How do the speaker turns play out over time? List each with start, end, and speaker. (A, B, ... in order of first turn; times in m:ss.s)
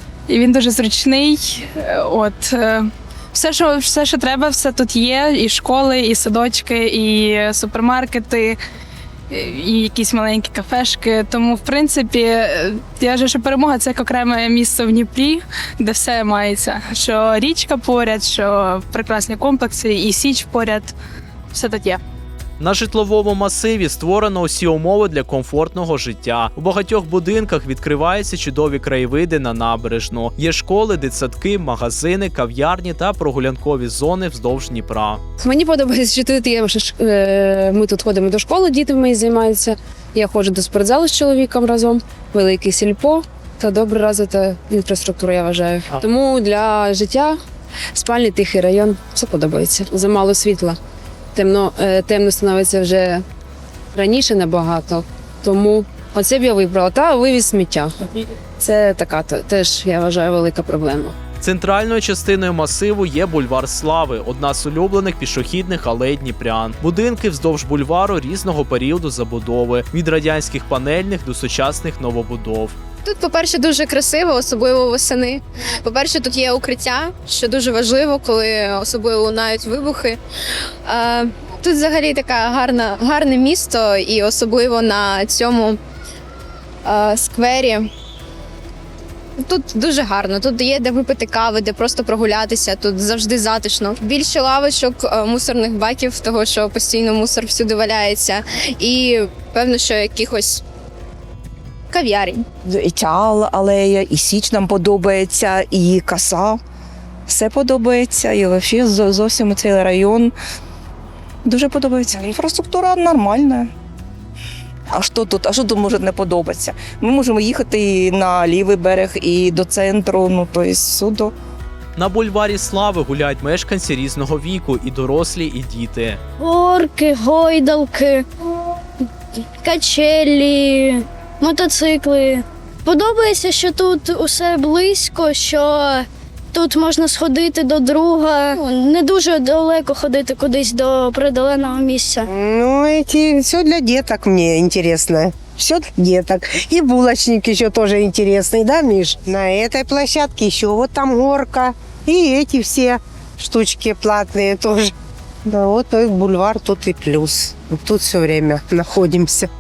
0:00.3-0:08.6 A
0:09.3-0:20.9 A
0:21.5-0:22.0 A
0:22.6-0:35.2 B
0:35.4-0:47.4 C
0:47.9-0:50.8 C
0:51.3-0:53.2 C
0:53.9-1:01.1 C
1:01.4-1:12.7 B
1:13.0-1:20.2 D
1:20.9-1:25.8 D
1:26.8-1:27.9 D
1:29.4-1:40.6 D
1:41.9-1:42.4 D
1:42.7-1:46.6 E
1:47.3-1:50.3 E
1:51.5-1:53.7 E
1:54.9-2:01.3 E
2:02.0-2:06.2 B
2:06.4-2:08.3 F
2:09.6-2:22.3 F
2:22.3-2:34.9 G
2:35.5-2:39.5 G